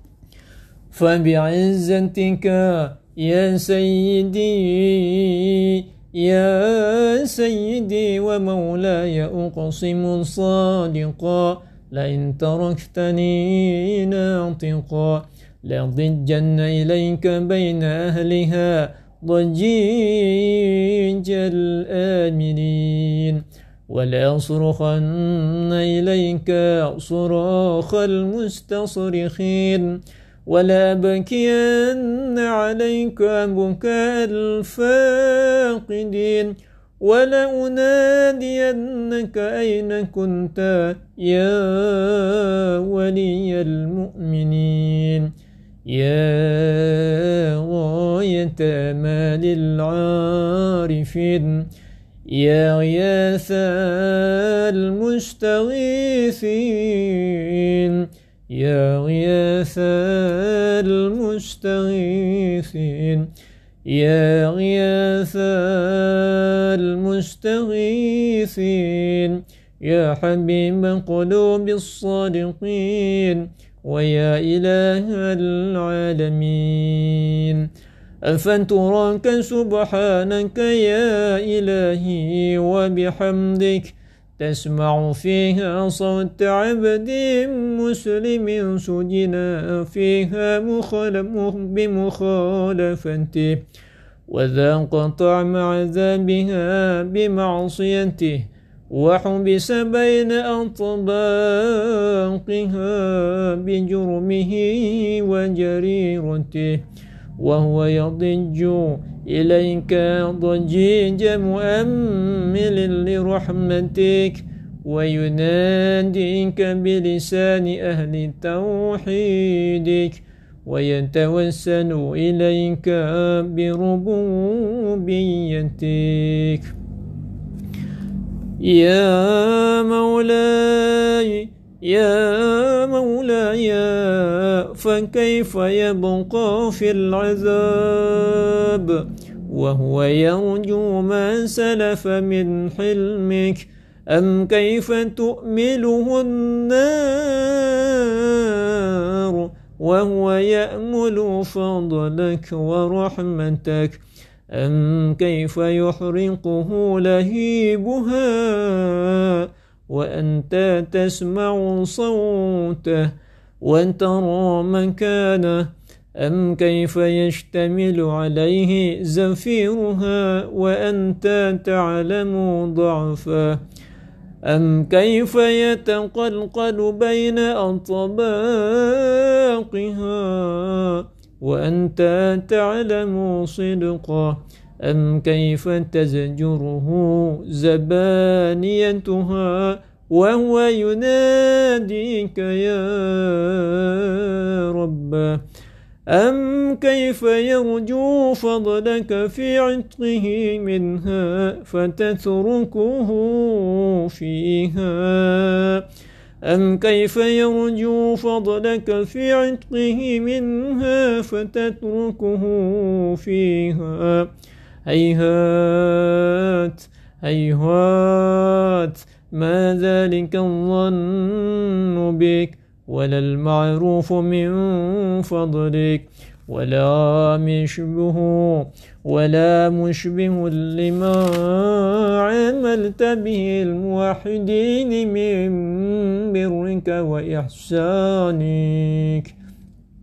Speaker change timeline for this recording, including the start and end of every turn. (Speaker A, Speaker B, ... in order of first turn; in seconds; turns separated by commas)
Speaker A: 0.9-45.3, Speaker A: 45.9-51.7, Speaker A: 52.3-63.3, Speaker A: 63.9-77.7, Speaker A: 78.2-93.6, Speaker A: 94.3-106.8, Speaker A: 107.4-126.7, Speaker A: 128.6-173.6, Speaker A: 174.4-195.4, Speaker A: 196.1-205.8, Speaker A: 206.4-214.3, Speaker A: 214.8-239.3